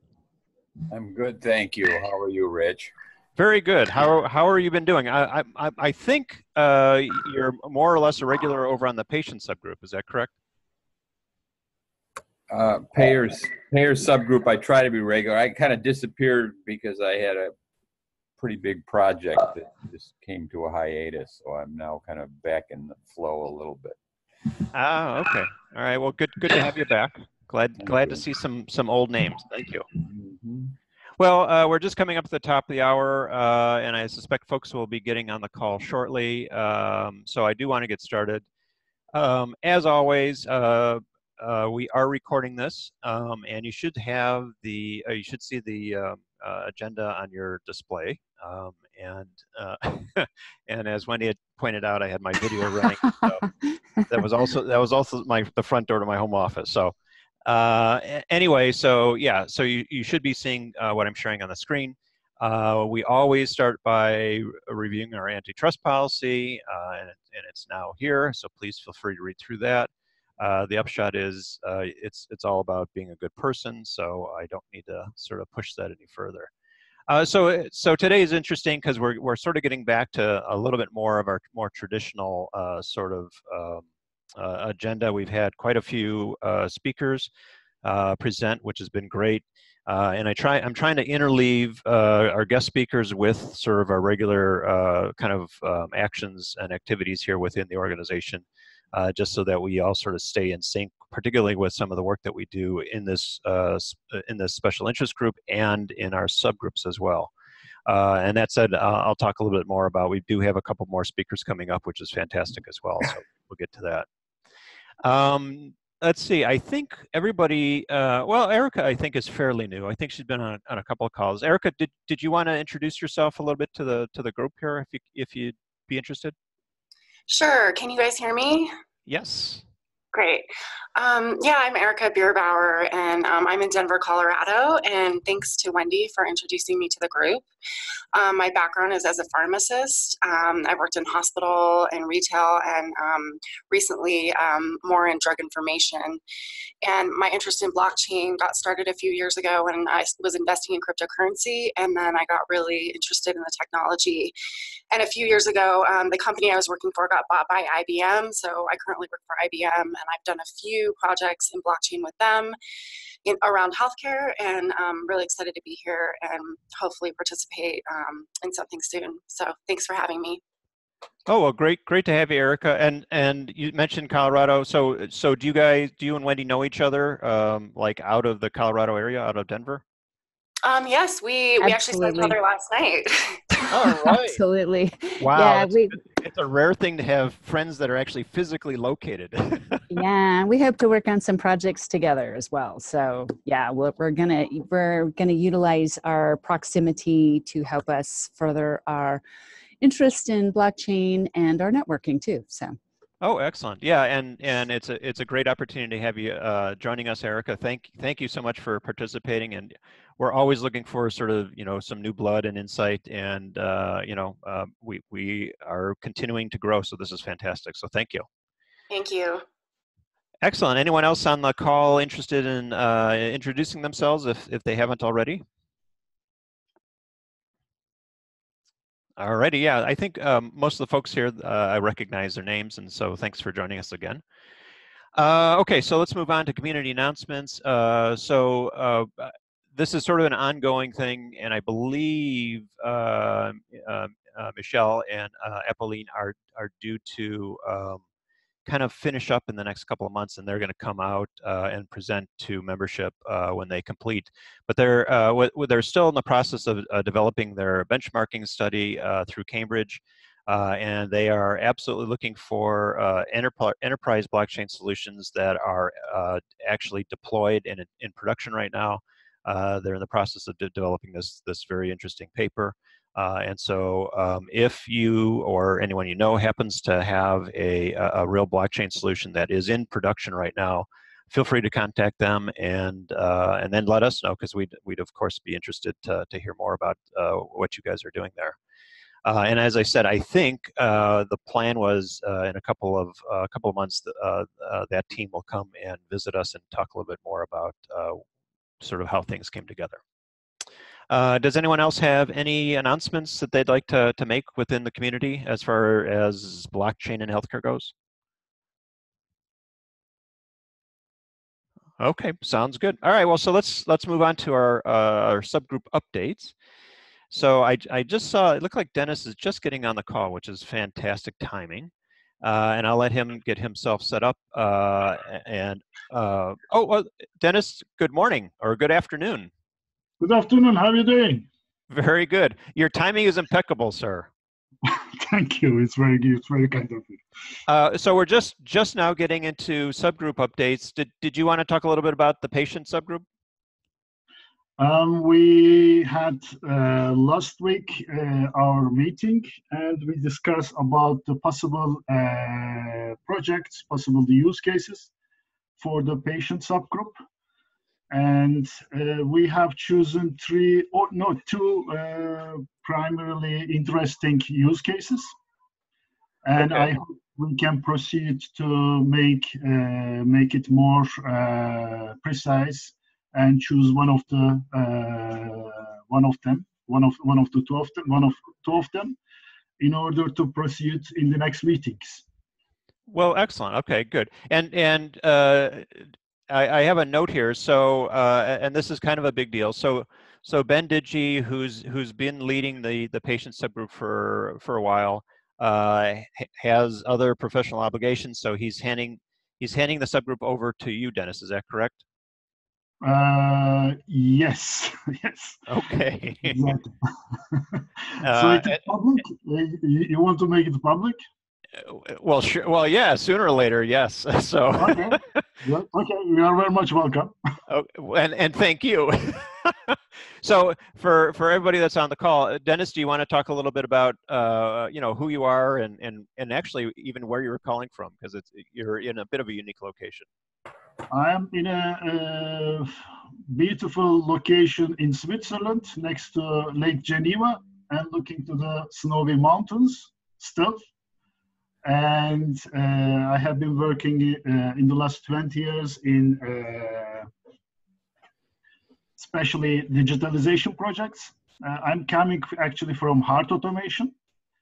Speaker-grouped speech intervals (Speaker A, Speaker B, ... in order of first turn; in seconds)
Speaker A: 0.9-2.9, 12.5-17.5, 18.4-24.0, 27.9-28.2, 30.1-30.7
Speaker B: 3.4-10.3, 24.7-29.9, 31.2-38.4, 39.1-53.5, 54.1-56.9, 57.5-76.5, 77.1-87.3, 87.8-107.3, 107.9-114.0, 115.0-126.3, 129.1-129.6, 171.3-179.8, 183.7-184.4, 185.2-189.8, 203.2-218.2, 220.4-225.4, 229.2-234.2, 235.2-248.0, 248.7-288.6, 289.2-298.2, 298.8-300.0, 301.1-307.9, 312.0-316.5, 317.3-321.9, 322.4-329.5, 331.9-334.3, 337.7-343.2, 383.1-385.9, 386.5-402.0, 405.7-406.6, 408.2-408.8, 411.8-415.4, 417.7-430.3
Speaker C: 127.3-128.7, 130.1-137.4, 138.1-146.2, 146.8-154.3, 154.9-162.6, 163.2-170.4, 180.6-183.4, 218.9-219.4
Speaker D: 181.6-182.4, 183.5-186.0, 189.9-199.2, 199.8-202.8
Speaker E: 330.2-331.5, 334.8-337.2, 344.8-355.1, 355.8-357.1, 358.1-365.3, 366.4-379.2, 379.8-382.2, 403.0-405.6, 406.4-411.2, 414.8-417.3, 431.1-432.9, 433.5-440.9, 441.8-447.3, 449.2-454.1